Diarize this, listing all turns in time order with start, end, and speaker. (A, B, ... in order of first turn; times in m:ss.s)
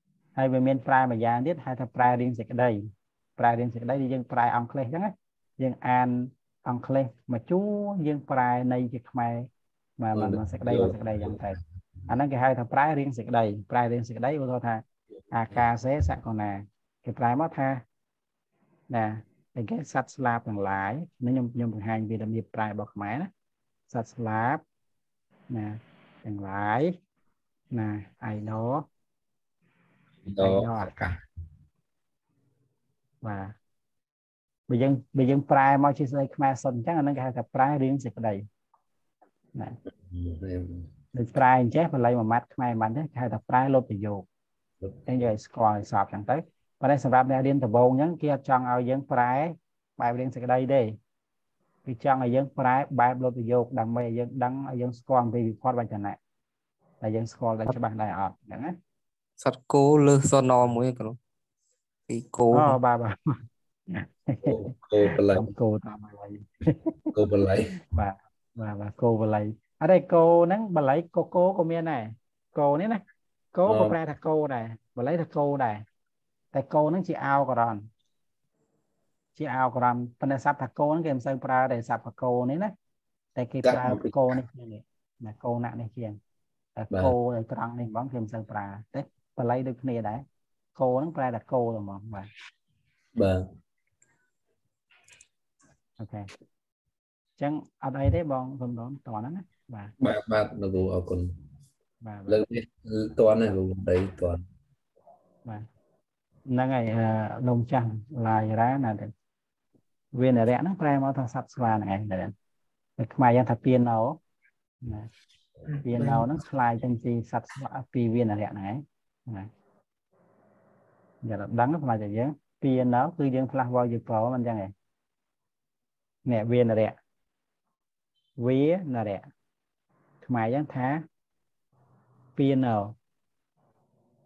0:00.4-0:02.8 A
0:03.4-0:09.5 A
0:10.0-0:17.8 A
0:10.1-0:11.6 B
0:18.9-0:23.3 A
0:23.9-0:24.6 A
0:25.5-0:26.9 A
0:27.7-0:28.8 A
0:30.2-0:31.2 B
0:30.4-0:30.9 A
0:33.2-0:33.5 A
0:34.7-0:38.4 A
0:39.9-0:40.9 B
0:41.1-0:44.2 A
0:45.1-0:50.9 A
0:51.8-0:56.2 A
0:57.0-0:58.7 A
0:59.4-1:01.2 C
1:02.1-1:02.8 C
1:02.5-1:03.4 A
1:03.9-1:04.7 A
1:04.4-1:05.5 B
1:05.3-1:06.9 A
1:07.1-1:07.7 B
1:07.9-1:13.0 A
1:13.5-1:15.8 A
1:13.7-1:13.9 B
1:16.5-1:17.8 A
1:19.4-1:22.7 A
1:23.4-1:26.2 A
1:23.6-1:24.4 B
1:26.8-1:30.2 A
1:30.8-1:32.3 A
1:33.2-1:33.5 B
1:36.0-1:36.3 A
1:37.4-1:39.9 A
1:40.0-1:41.3 B
1:42.0-1:42.4 A
1:42.3-1:44.4 B
1:46.5-1:49.1 A
1:50.1-1:52.3 A
1:53.0-1:54.2 A
1:54.8-1:55.1 A
1:55.7-1:56.3 B
1:55.8-1:59.5 A
2:01.2-2:04.7 A
2:06.2-2:07.0 A
2:08.4-2:09.3 A
2:10.2-2:11.0 A
2:12.4-2:12.9 A